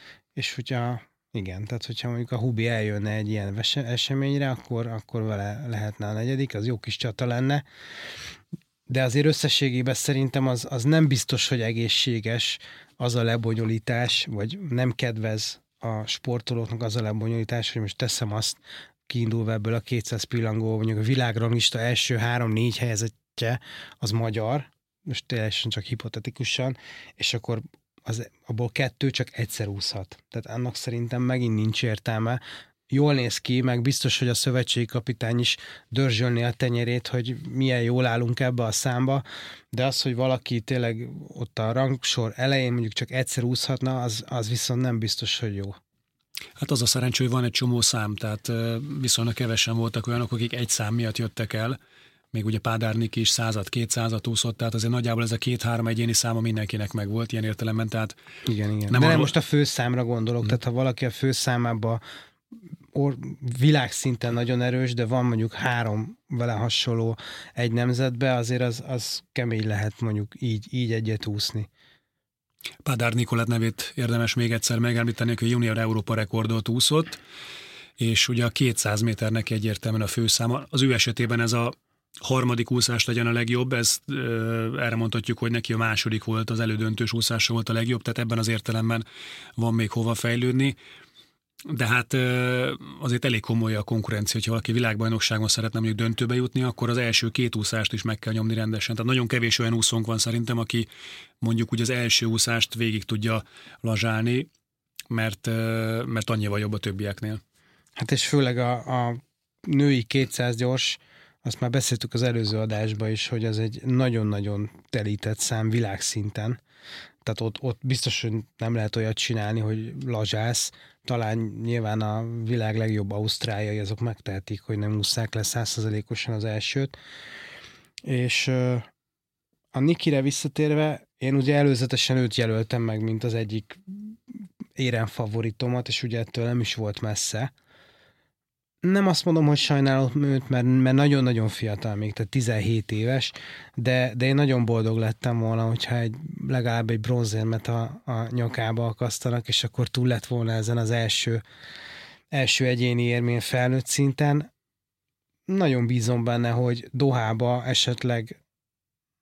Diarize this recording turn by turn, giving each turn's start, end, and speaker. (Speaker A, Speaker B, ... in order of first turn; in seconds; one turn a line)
Speaker A: 0.4-7.6
Speaker A: 8.9-45.8
Speaker B: 46.6-51.8
Speaker B: 52.3-58.2
Speaker A: 58.5-62.0
Speaker B: 58.9-59.3
Speaker A: 62.9-71.7
Speaker B: 72.8-77.2
Speaker B: 78.0-89.0
Speaker B: 89.6-90.8
Speaker B: 91.7-100.9
Speaker B: 101.4-104.5
Speaker B: 105.1-107.4
Speaker A: 108.0-116.6
Speaker A: 117.2-127.0
Speaker A: 128.1-128.9
Speaker A: 129.7-134.2
Speaker A: 134.8-137.5
Speaker A: 138.8-151.4
Speaker A: 152.3-154.5
Speaker A: 155.5-158.4